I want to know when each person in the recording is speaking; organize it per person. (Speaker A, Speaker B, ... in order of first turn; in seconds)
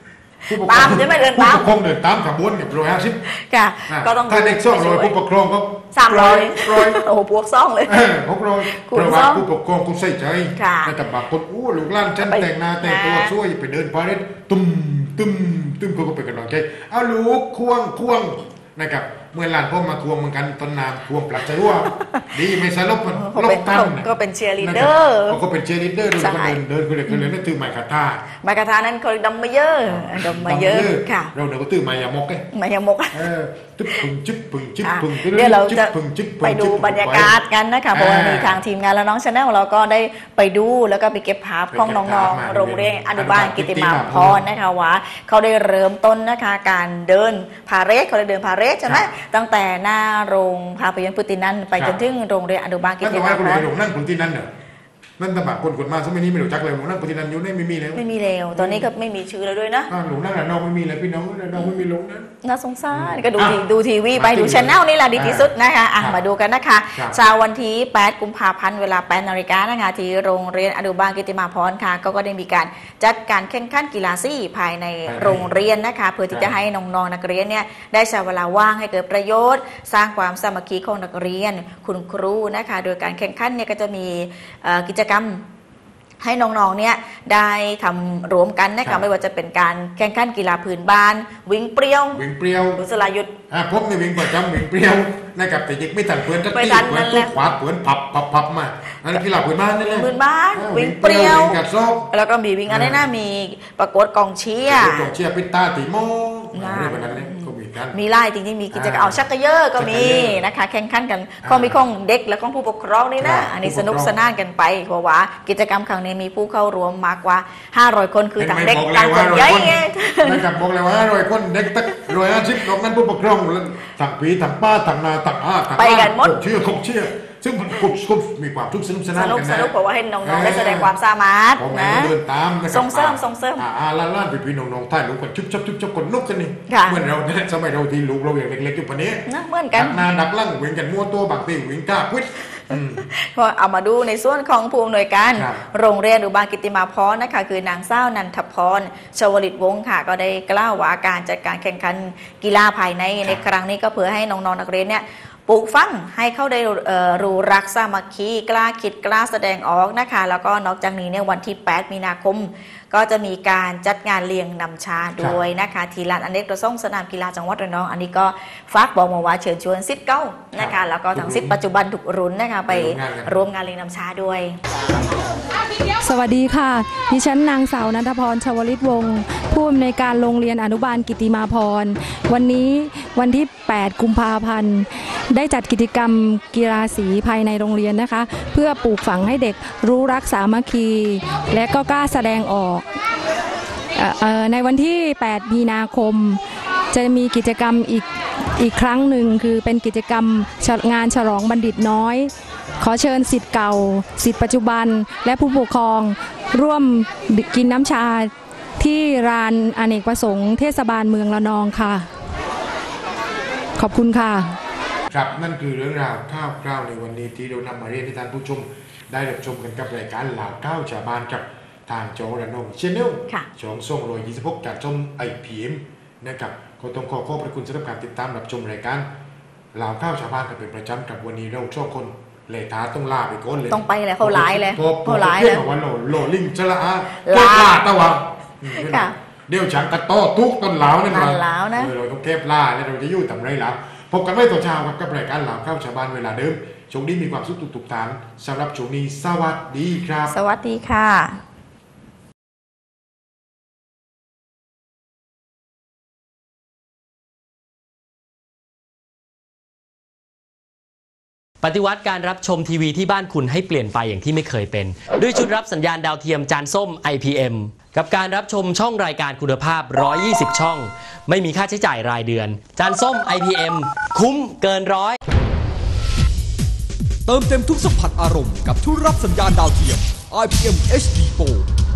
Speaker A: 0.5-3.2, 3.9-7.0, 7.9-24.1, 24.6-28.2, 29.9-32.5, 33.1-37.3, 37.9-38.6, 41.7-44.5, 53.0-54.5, 55.2-58.0, 58.6-58.9, 59.9-62.3, 62.9-63.6, 64.2-66.2, 75.1-75.5, 92.1-92.8, 93.5-102.1, 102.7-103.0, 104.6-108.0, 108.7-109.2, 109.8-110.4, 111.4-111.8, 113.2-114.2, 118.4-129.7, 130.2-130.9, 131.6-143.0, 145.4-145.6, 170.6-171.6, 172.7-173.3, 215.1-229.1, 229.7-250.3
Speaker B: 0.6-1.6, 3.3-5.2, 5.9-8.0, 8.7-9.4, 10.6-10.9, 12.2-13.3, 22.0-22.3, 23.1-25.4, 26.2-27.3, 28.4-31.3, 32.5-33.2, 34.8-53.7, 58.0-59.9, 61.5-61.8, 62.4-85.5, 86.2-92.2, 92.8-93.3, 96.5-97.4, 99.9-101.6, 102.1-105.1, 106.5-120.4, 125.8-126.3, 129.1-132.1, 132.7-133.7, 136.7-137.0, 139.3-140.0, 143.1-174.6, 233.7-235.6, 237.2-237.7, 238.8-239.1, 241.1-241.9, 250.3-251.4
Speaker C: 176.0-192.8, 194.0-196.4, 196.9-198.1, 198.6-212.1, 213.8-214.6
Speaker D: 261.6-275.2
Speaker E: 277.3-281.7